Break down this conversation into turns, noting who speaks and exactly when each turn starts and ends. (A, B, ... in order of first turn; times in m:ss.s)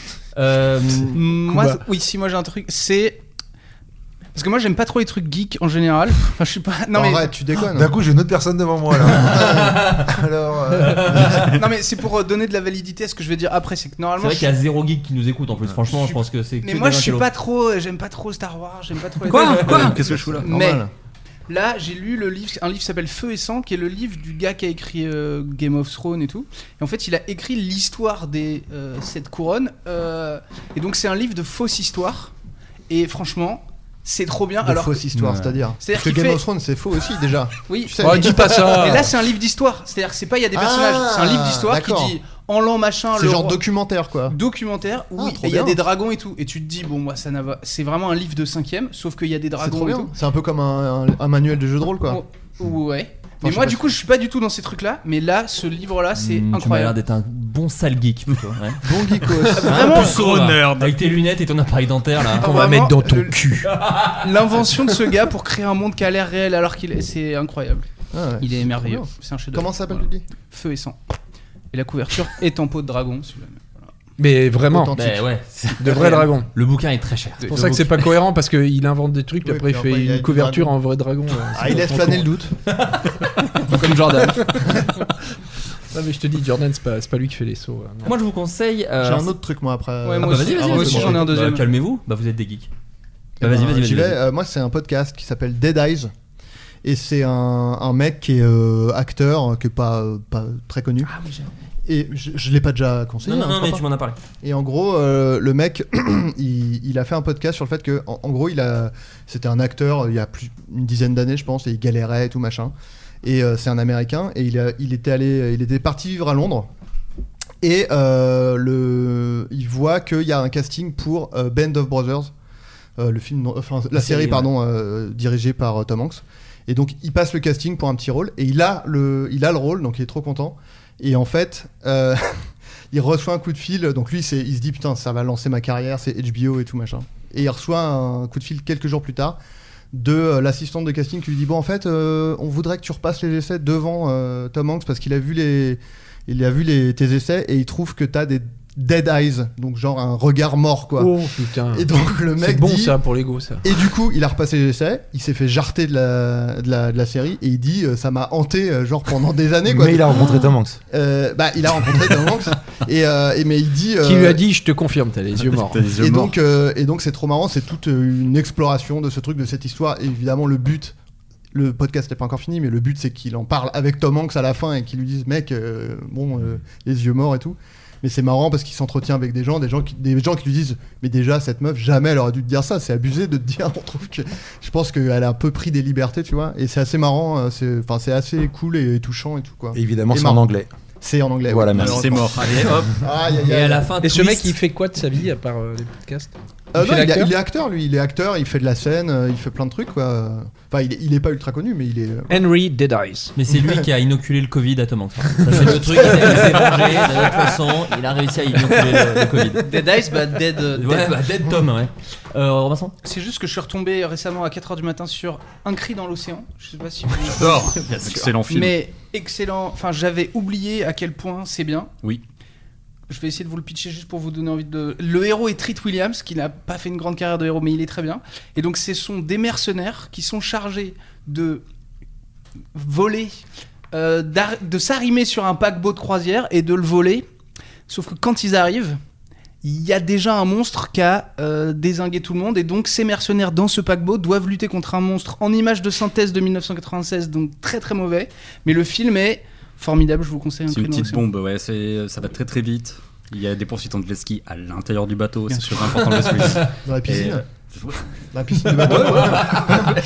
0:00.4-0:01.2 A
0:01.1-0:03.2 B
0:01.5-0:01.8 C
0:04.3-0:07.4 B
0:06.9-0:07.9 D
0:07.7-0:11.4 E
0:09.2-0:10.1 A
0:09.3-0:09.7 D
0:10.8-0:11.6 A
0:11.5-0:14.6 B
0:14.2-0:17.3 A
0:15.9-0:20.8 B
0:19.3-0:20.5 F
0:19.3-0:19.9 A
0:20.4-0:20.9 D
0:21.5-0:32.3 B
0:32.9-0:35.1 B
0:34.6-0:39.0 D
0:35.2-0:35.6 A
0:35.8-0:36.4 B
0:37.6-0:43.6 B
0:38.0-0:39.1 C
0:40.5-0:42.2 D
0:43.1-0:44.4 D
0:44.3-0:50.1 B
0:45.2-0:45.8 D
0:49.6-0:52.2 D
0:52.1-0:57.0 B
0:53.4-0:53.9 D
0:56.2-0:58.8 A
0:58.8-1:00.0 D
0:59.6-1:02.5 A
0:59.6-1:00.2 B
1:00.0-1:00.9 F
1:02.4-1:03.4 B
1:02.4-1:03.7 C
1:04.1-1:07.9 B
1:08.1-1:10.3 D
1:08.4-1:11.0 B
1:11.7-1:13.9 B
1:14.2-1:14.9 C
1:14.7-1:15.2 D
1:14.9-1:17.8 A
1:15.8-1:16.5 C
1:17.4-1:17.8 B
1:17.5-1:22.3 C
1:19.4-1:20.8 D
1:21.5-1:22.6 D
1:23.7-1:24.8 B
1:25.9-1:28.1 C
1:28.0-1:29.4 A
1:29.0-1:31.4 D
1:30.0-1:31.7 B
1:30.2-1:32.7 A
1:33.4-1:36.1 D
1:33.4-1:34.2 A
1:36.8-1:41.1 D
1:41.9-1:43.8 D
1:43.2-1:44.2 A
1:44.4-1:56.7 D
1:57.6-2:02.3 D
2:03.0-2:19.4 D
2:19.9-2:31.1 D
2:31.0-2:33.6 C
2:31.7-2:33.0 D
2:33.6-2:40.2 D
2:39.6-2:40.8 E
2:40.9-2:44.4 D
2:44.0-2:46.0 C
2:45.4-2:46.4 F
2:46.0-2:51.0 D
2:51.5-3:10.5 D
3:09.7-3:10.7 E
3:11.0-3:13.9 D
3:11.5-3:12.9 E
3:11.7-3:13.0 F
3:13.5-3:14.6 A
3:14.0-3:17.3 C
3:16.7-3:22.3 D
3:22.3-3:23.4 C
3:23.4-3:29.8 A
3:25.6-3:26.9 C
3:29.6-3:31.2 B
3:30.7-3:33.0 A
3:33.0-3:41.9 B
3:37.3-3:38.8 F
3:43.1-3:51.6 B
3:52.7-3:53.4 B
3:53.9-3:57.3 B
3:57.9-3:59.0 B
3:59.6-4:11.2 B
4:10.7-4:19.9 F
4:15.5-4:16.1 B
4:16.8-4:17.4 D
4:18.3-4:19.9 D
4:19.0-4:19.4 B